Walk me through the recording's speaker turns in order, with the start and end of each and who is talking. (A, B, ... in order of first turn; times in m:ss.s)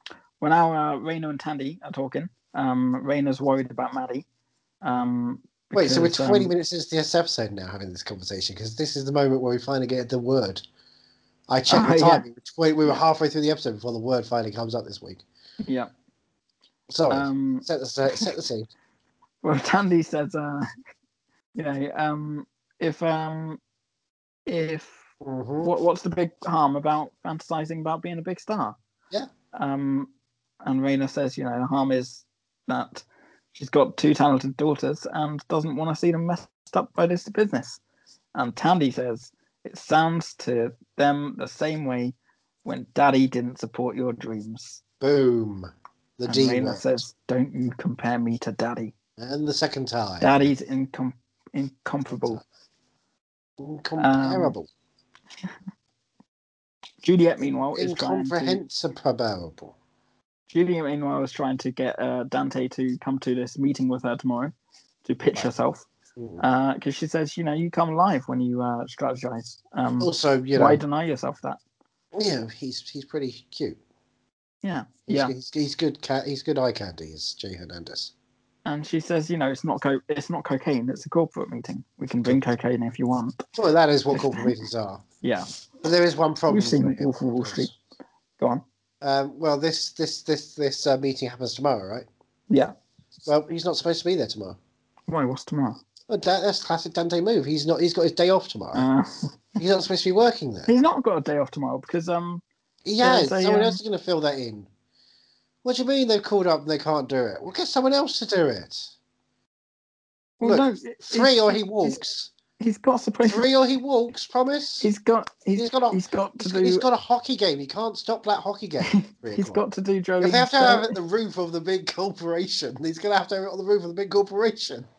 0:00.4-0:04.3 A
0:04.8-0:06.5 A
0:05.7-0:10.6 B
0:11.5-0:15.2 B
0:11.7-0:12.2 A
0:15.6-0:15.9 A
0:16.9-0:18.7 B
0:17.1-0:18.3 A
0:19.4-0:20.7 A
0:21.6-0:23.6 A
0:24.5-0:25.0 A
0:25.2-0:25.7 B
0:25.6-0:28.8 A
0:29.5-0:30.1 A
0:30.6-0:37.8 A
0:38.4-0:44.8 A
0:45.0-0:46.9 B
0:46.3-0:48.9 A
0:49.2-0:50.4 B
0:50.2-0:52.4 A
0:52.1-0:52.4 B
0:53.6-0:54.7 B
0:54.0-0:54.5 A
0:57.0-0:58.6 A
0:57.8-0:59.8 B
1:00.5-1:04.5 A
1:05.0-1:05.9 A
1:06.2-1:06.4 B
1:06.4-1:11.6 A
1:10.0-1:10.8 B
1:12.1-1:13.8 B
1:14.6-1:15.3 A
1:15.1-1:18.1 B
1:18.7-1:23.5 A
1:23.6-1:25.0 B
1:24.1-1:24.5 A
1:25.2-1:25.5 A
1:25.8-1:27.7 B
1:26.5-1:27.7 A
1:29.0-1:32.1 B
1:33.3-1:34.6 B
1:35.1-1:35.8 A
1:36.1-1:38.9 B
1:38.7-1:39.4 A
1:39.6-1:40.7 B
1:40.7-1:42.4 A
1:42.8-1:44.7 B
1:43.0-1:43.8 A
1:45.6-1:48.9 B
1:50.4-1:52.0 A
1:50.4-1:52.3 B
1:52.6-1:53.5 A
1:53.2-1:54.9 B
1:54.8-1:56.8 A
1:55.6-1:59.6 B
1:58.9-2:01.0 A
2:00.2-2:04.9 B